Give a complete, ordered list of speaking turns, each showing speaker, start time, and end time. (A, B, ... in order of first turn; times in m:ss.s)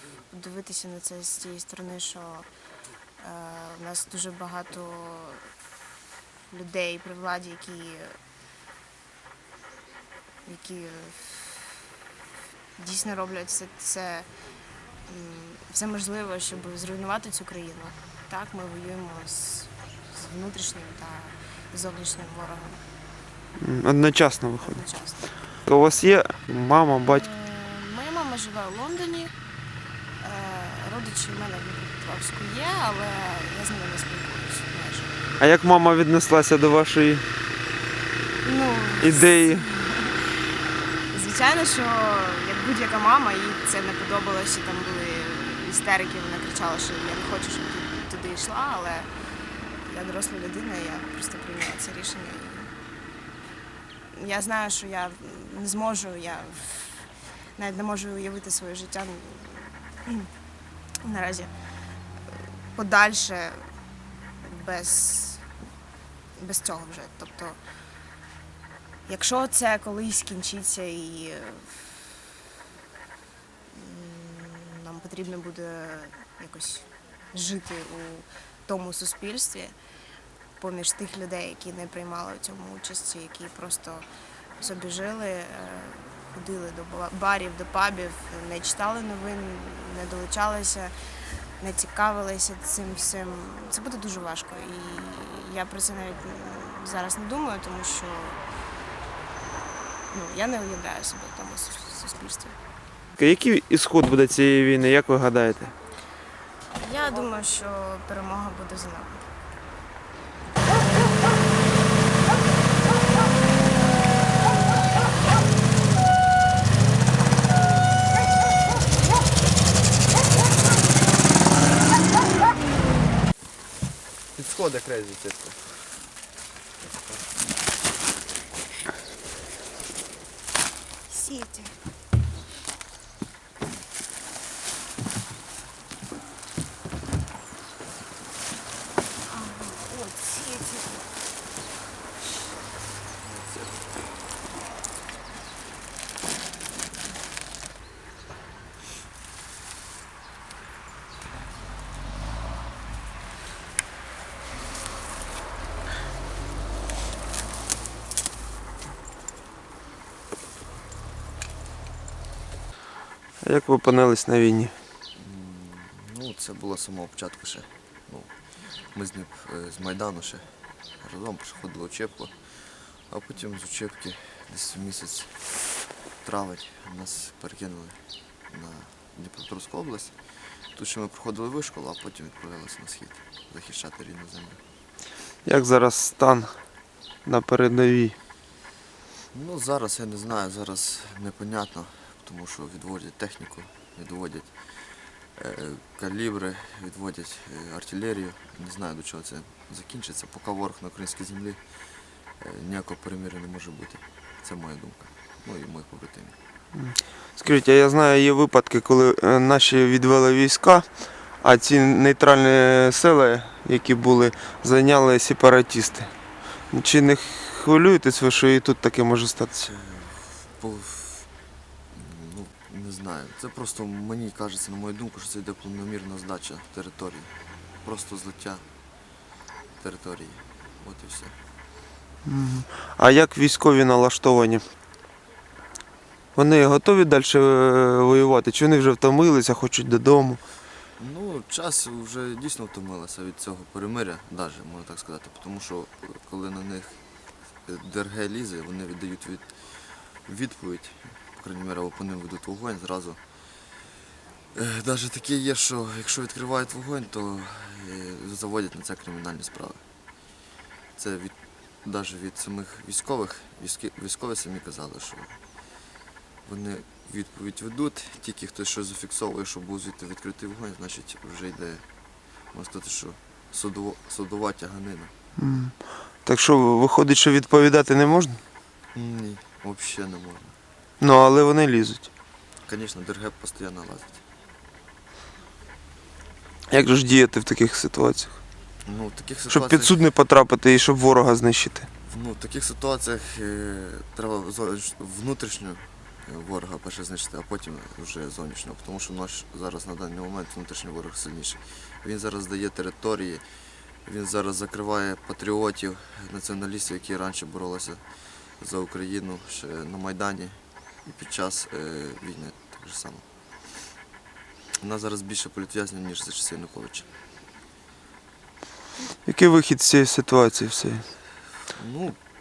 0:00.3-0:02.5 A
0:03.2-0:05.5 A
0:06.5-0:08.2 A
0:10.4-0:11.9 A
0:12.8-0:14.3 A
0:15.1-0:22.8 A
0:23.6-0:24.8 B
0:24.6-0:25.3 A
0:25.7-0:27.2 B
0:27.0-0:29.3 A
0:30.2-0:35.1 A
0:35.4-0:37.2 B
0:38.4-0:40.5 A
0:39.0-0:39.6 B
0:41.1-0:49.1 A
0:49.9-0:52.7 A
0:54.1-1:00.3 A
1:01.0-1:01.5 A
1:02.4-1:03.7 A
1:04.4-1:05.5 A
1:06.4-1:07.6 A
1:09.1-1:12.1 A
1:13.7-1:19.8 A
1:20.6-1:24.1 A
1:24.6-1:30.9 A
1:31.6-1:38.4 A
1:40.1-1:42.6 A
1:43.2-1:45.7 B
1:46.8-1:49.3 A
2:04.4-2:05.8 C
2:06.9-2:07.2 C
2:11.1-2:11.8 A
2:19.2-2:21.1 A
2:23.2-2:23.9 C
2:43.4-2:44.7 B
2:45.2-2:48.3 C
2:48.9-2:55.5 C
2:56.2-3:00.2 C
3:00.7-3:04.6 C
3:05.4-3:06.5 B
3:07.3-3:08.2 B
3:09.3-3:14.5 C
3:15.4-3:21.6 C
3:22.4-3:26.4 C
3:26.8-3:30.9 B
3:31.4-3:36.1 B
3:36.7-3:39.7 B
3:39.6-3:41.3 C
3:41.9-3:47.3 C
3:47.8-3:48.6 C
3:49.8-3:51.4 C
3:52.2-3:54.6 B
3:56.4-4:00.4 B
4:01.0-4:07.0 C
4:07.6-4:13.2 C
4:14.5-4:19.8 C
4:21.0-4:25.4 C
4:26.5-4:31.8 C
4:32.5-4:35.1 C
4:35.4-4:38.4 B
4:38.9-4:40.6 C
4:41.0-4:42.1 B
4:42.7-4:44.2 C
4:46.7-4:48.3 B
4:48.8-4:50.0 C
4:49.5-4:51.9 B
4:52.1-5:03.4 C
5:04.0-5:08.0 C
5:08.6-5:13.2 C
5:14.8-5:17.1 C
5:19.3-5:21.0 B
5:21.7-5:22.2 C